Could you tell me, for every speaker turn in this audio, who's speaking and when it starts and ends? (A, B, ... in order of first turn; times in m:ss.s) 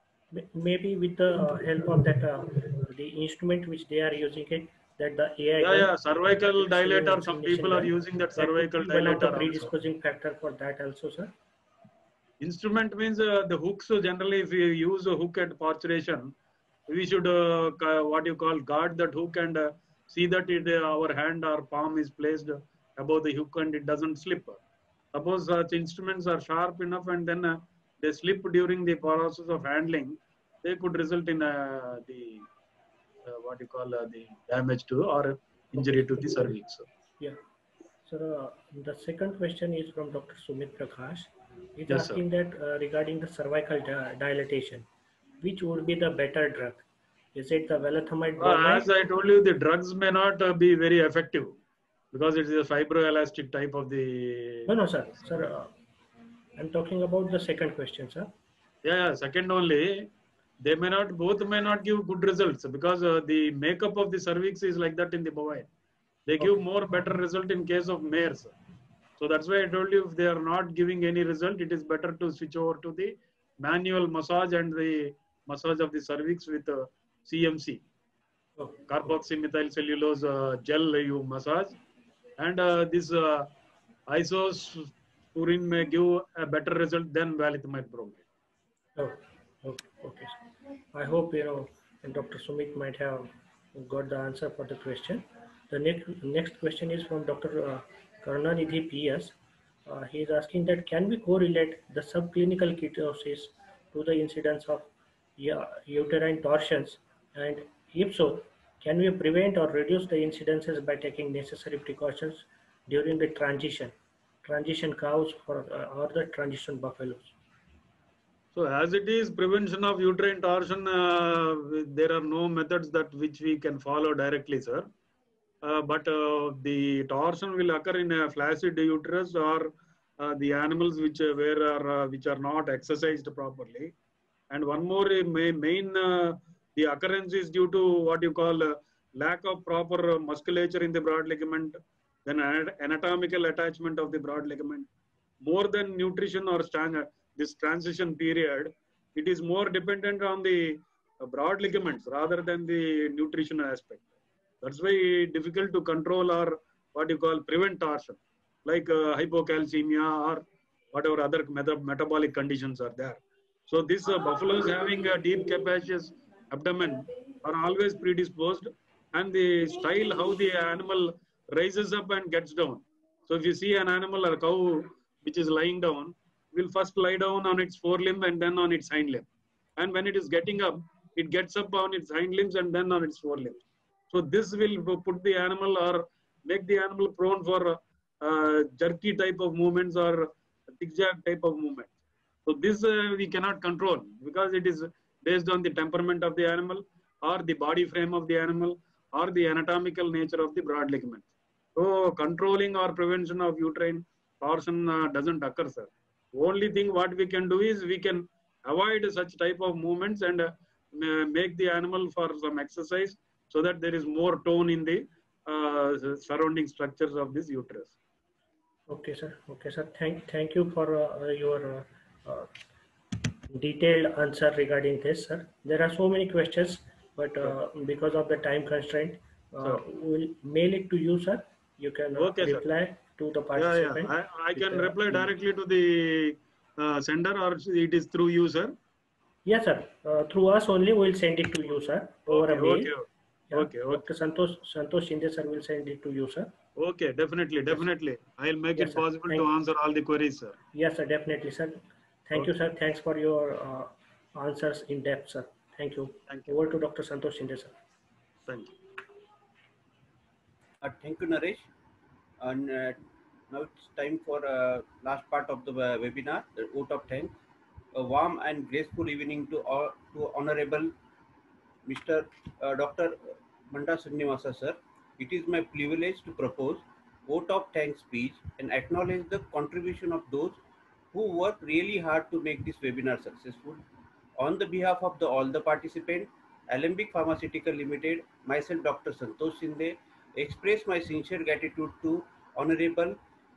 0:00.3-0:11.3 A
0:05.6-0:09.7 B
0:12.4-0:16.3 B
0:16.9-0:24.6 B
0:25.1-0:32.5 B
0:33.2-0:36.9 B
0:36.2-0:36.5 A
0:38.1-0:44.9 A
0:41.9-0:42.2 B
0:45.4-0:48.9 A
0:48.4-0:51.6 B
0:52.1-0:54.8 B
0:54.7-0:55.7 A
0:56.6-0:58.3 A
0:58.8-1:05.7 B
1:06.3-1:08.5 B
1:09.2-1:17.8 B
1:18.6-1:18.8 A
1:18.9-1:21.8 B
1:22.4-1:23.5 B
1:24.1-1:28.2 B
1:29.0-1:30.4 A
1:30.9-1:39.4 A
1:39.9-1:57.4 A
1:58.5-2:04.9 B
2:05.6-2:13.9 B
2:14.5-2:24.9 B
2:25.4-2:34.0 B
2:34.6-3:11.9 B
3:12.4-3:38.0 B
3:38.9-3:42.5 A
3:43.5-3:55.3 A
3:52.2-3:52.7 B
3:53.6-3:58.8 B
3:59.4-4:02.9 A
4:02.3-4:04.0 B
4:03.5-4:06.5 A
4:06.8-4:10.6 B
4:08.8-4:09.5 A
4:10.7-4:17.8 A
4:16.3-4:16.6 B
4:18.5-4:18.7 B
4:20.8-4:21.7 C
4:22.4-4:27.3 C
4:27.9-4:30.9 C
4:31.8-4:40.6 C
4:41.1-4:43.8 C
4:44.4-4:53.2 C